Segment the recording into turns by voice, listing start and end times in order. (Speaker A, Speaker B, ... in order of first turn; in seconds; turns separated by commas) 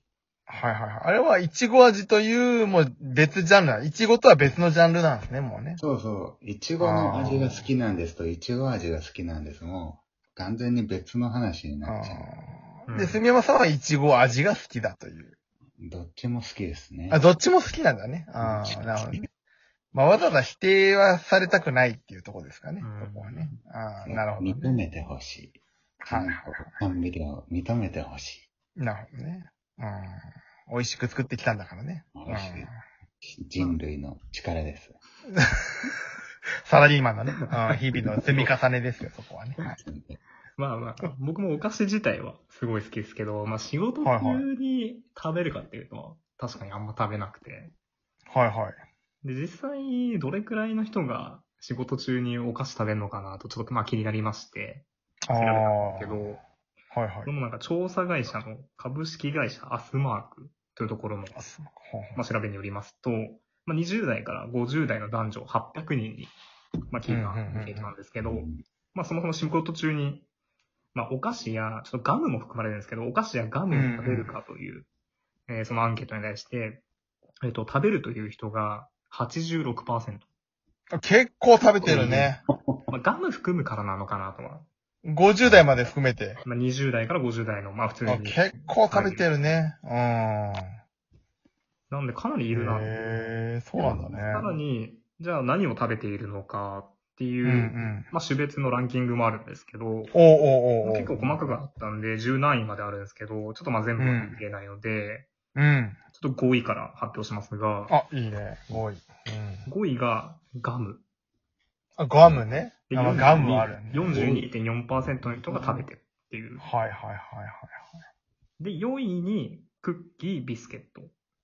Speaker A: 0.5-5.8, Speaker B: 5.8-12.2, Speaker A: 6.8-7.7, Speaker A: 11.9-15.3, Speaker C: 12.9-13.2, Speaker B: 15.8-17.2, Speaker A: 17.1-19.3, Speaker B: 18.4-19.2, Speaker A: 19.9-24.7, Speaker C: 22.8-23.5, Speaker B: 24.1-28.5, Speaker A: 26.1-26.8, Speaker A: 28.8-32.8, Speaker B: 32.1-32.7, Speaker B: 33.2-35.0, Speaker A: 35.4-35.7, Speaker A: 36.7-39.8, Speaker C: 37.3-38.5, Speaker B: 39.9-40.2, Speaker C: 40.6-47.7, Speaker A: 44.0-44.5, Speaker A: 48.3-48.8, Speaker C: 49.2-56.4, Speaker A: 55.3-56.3, Speaker A: 56.9-57.3, Speaker C: 57.2-61.4, Speaker A: 61.3-62.2, Speaker C: 62.2-66.3, Speaker C: 66.9-70.3, Speaker A: 67.1-67.9, Speaker B: 68.2-68.6, Speaker C: 70.9-74.9, Speaker A: 73.7-74.3, Speaker C: 75.5-76.8, Speaker C: 77.4-80.2, Speaker A: 80.9-82.4, Speaker B: 81.8-82.9, Speaker C: 82.9-84.7, Speaker A: 85.0-86.4, Speaker C: 86.4-89.3, Speaker A: 88.1-90.8, Speaker C: 91.9-93.0, Speaker A: 92.5-94.5, Speaker C: 93.8-100.1, Speaker A: 97.4-98.1, Speaker A: 100.1-101.3, Speaker C: 100.8-105.3, Speaker A: 104.0-104.4, Speaker A: 105.5-106.0, Speaker C: 106.2-107.9, Speaker A: 107.9-109.7, Speaker C: 109.7-111.0, Speaker A: 112.0-114.5, Speaker C: 112.9-116.6, Speaker A: 116.6-117.9, Speaker C: 118.6-121.1